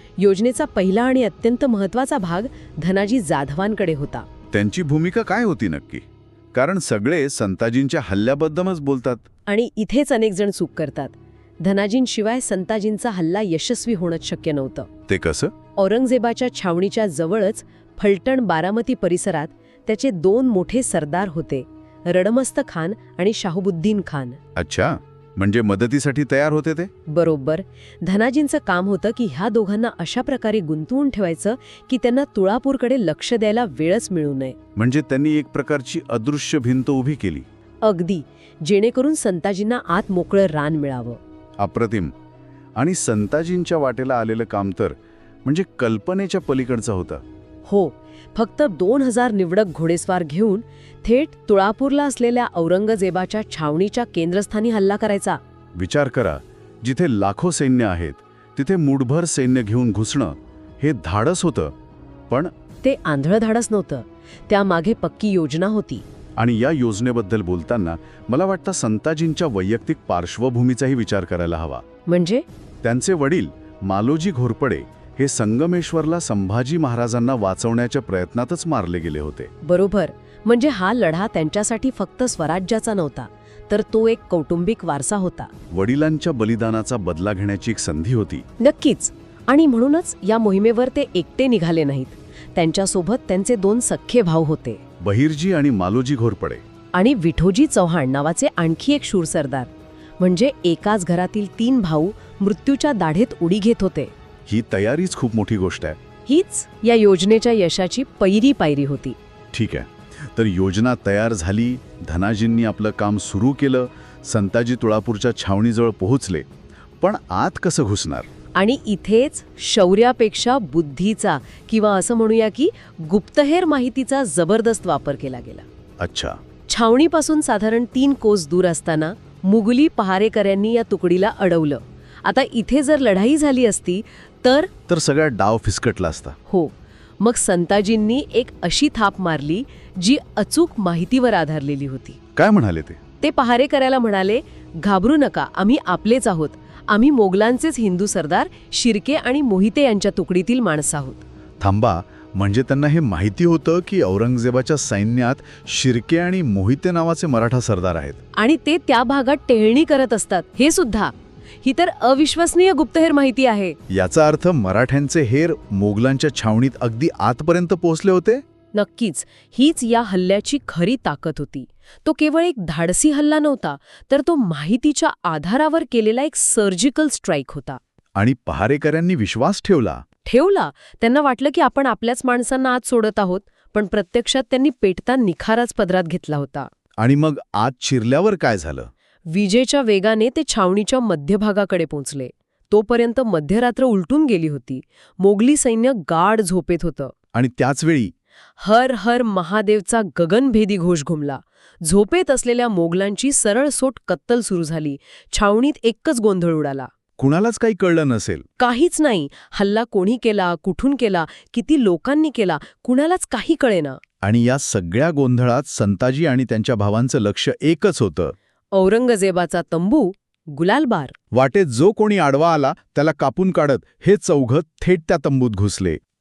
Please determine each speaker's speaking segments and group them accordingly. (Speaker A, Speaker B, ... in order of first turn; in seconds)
Speaker A: 0.2-4.3, 9.5-14.9, 15.8-24.4, 27.1-34.6, 37.8-41.2, 47.7-55.4, 62.8-66.0, 72.1-72.5, 79.6-85.5, 88.6-94.8, 96.9-104.1, 106.3-109.2, 118.6-125.7, 126.7-134.7, 136.5-142.2, 143.2-151.2, 158.3-163.8, 168.7-177.8, 180.2-186.7, 189.3-197.1, 198.6-206.9, 208.6-214.0, 218.7-221.2
Speaker B: 4.5-9.2, 15.1-15.5, 24.6-26.9, 34.8-37.5, 41.6-42.1, 42.8-47.2, 55.8-61.8, 66.4-71.8, 72.8-79.5, 85.7-88.5, 95.0-96.6, 104.5-106.0, 109.5-116.5, 117.0-118.3, 126.0-126.4, 134.9-136.4, 142.3-143.0, 151.6-158.2, 163.9-168.4, 178.2-180.0, 187.0-188.9, 197.3-198.1, 207.2-208.5, 214.2-218.3, 221.3-226.0